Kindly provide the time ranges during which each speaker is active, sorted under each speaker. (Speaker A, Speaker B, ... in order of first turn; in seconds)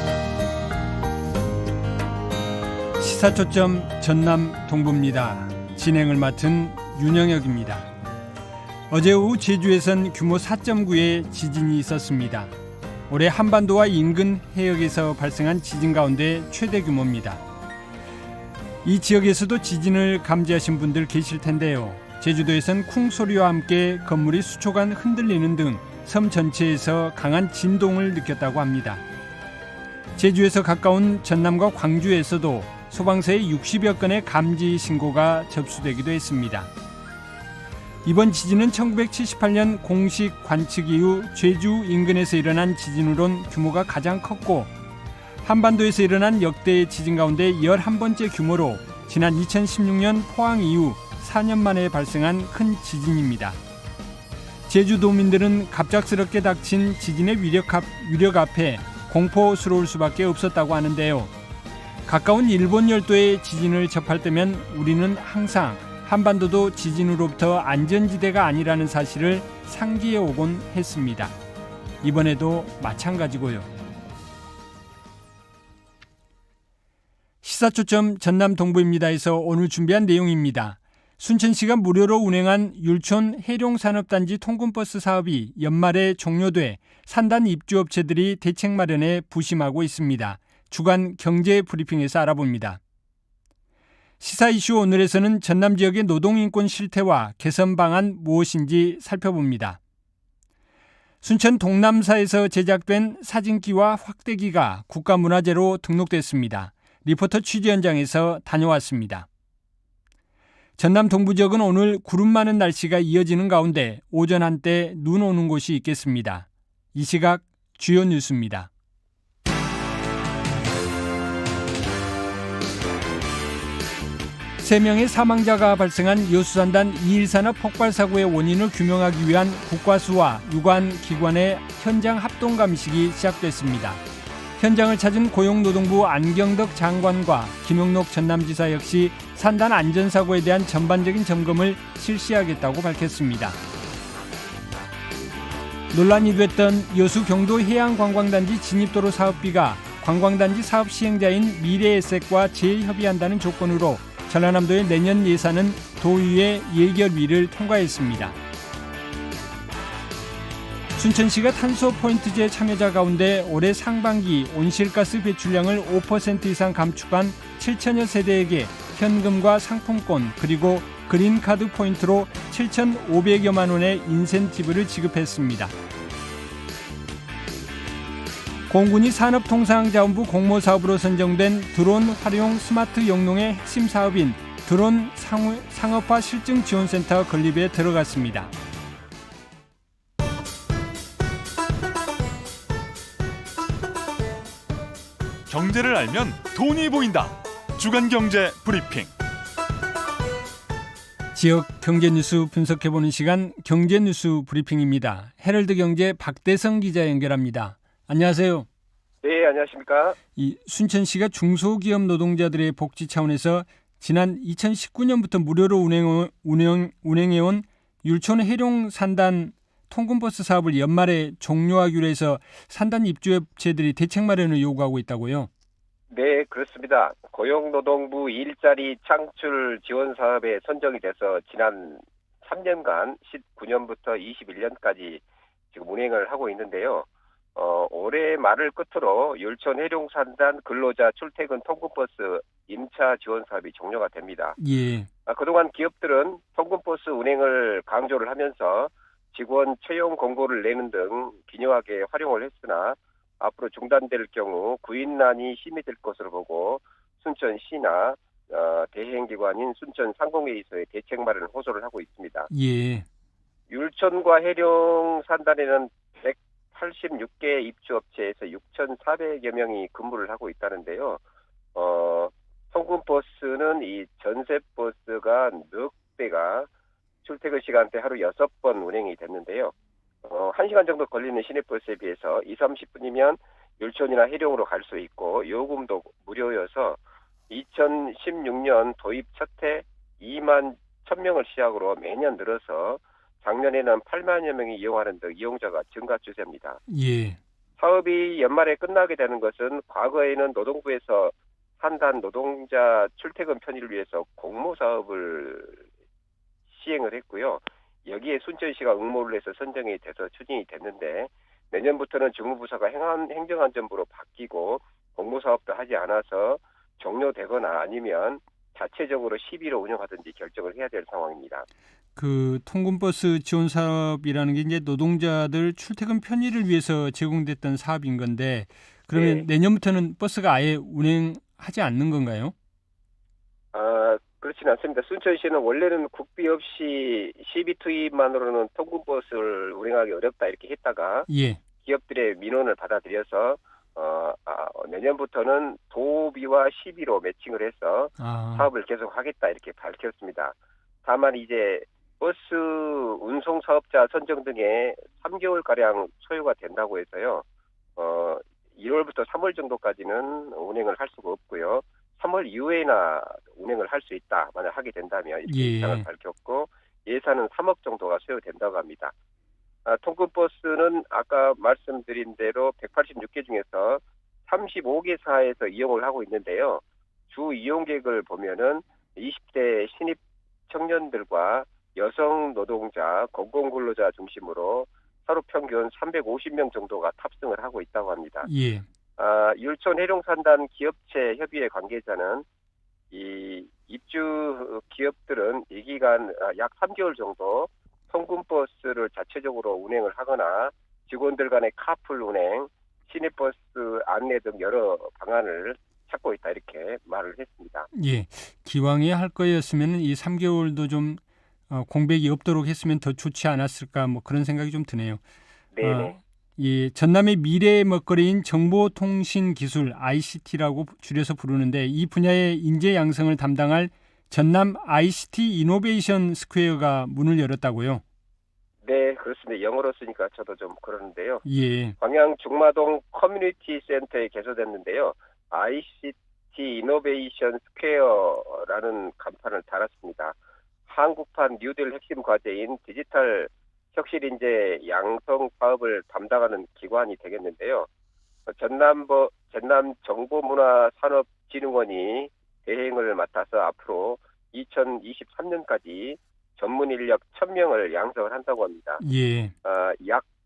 Speaker A: 3.0-7.9, 8.9-12.5, 13.1-17.4, 18.8-29.0, 30.1-36.7, 38.0-44.7, 45.4-53.6, 54.7-61.3, 62.0-71.3, 72.0-73.7, 77.4-92.8, 94.2-99.8, 101.2-109.3, 110.8-118.7, 124.6-134.0, 134.6-143.6, 145.9-158.4, 160.9-175.7, 178.7-188.5, 201.3-208.7, 210.3-225.5, 244.6-245.1, 262.5-263.1, 296.9-297.4, 322.1-332.5, 341.3-341.6, 348.2-348.7, 365.5-366.1, 388.4-388.9, 407.9-415.2, 415.8-428.0, 431.4-431.9, 459.0-459.5
Speaker B: 195.5-199.1
Speaker C: 209.2-210.2, 226.1-244.6, 245.2-262.5, 263.7-271.2, 271.7-276.7, 277.2-296.8, 297.8-305.8, 306.7-321.6, 329.1-329.4, 333.7-341.3, 341.8-357.4, 358.0-369.1, 369.9-388.5, 389.2-392.4, 393.1-407.9, 415.7-416.1, 428.8-431.4, 432.0-440.4, 440.9-447.9, 448.5-459.0, 459.6-460.2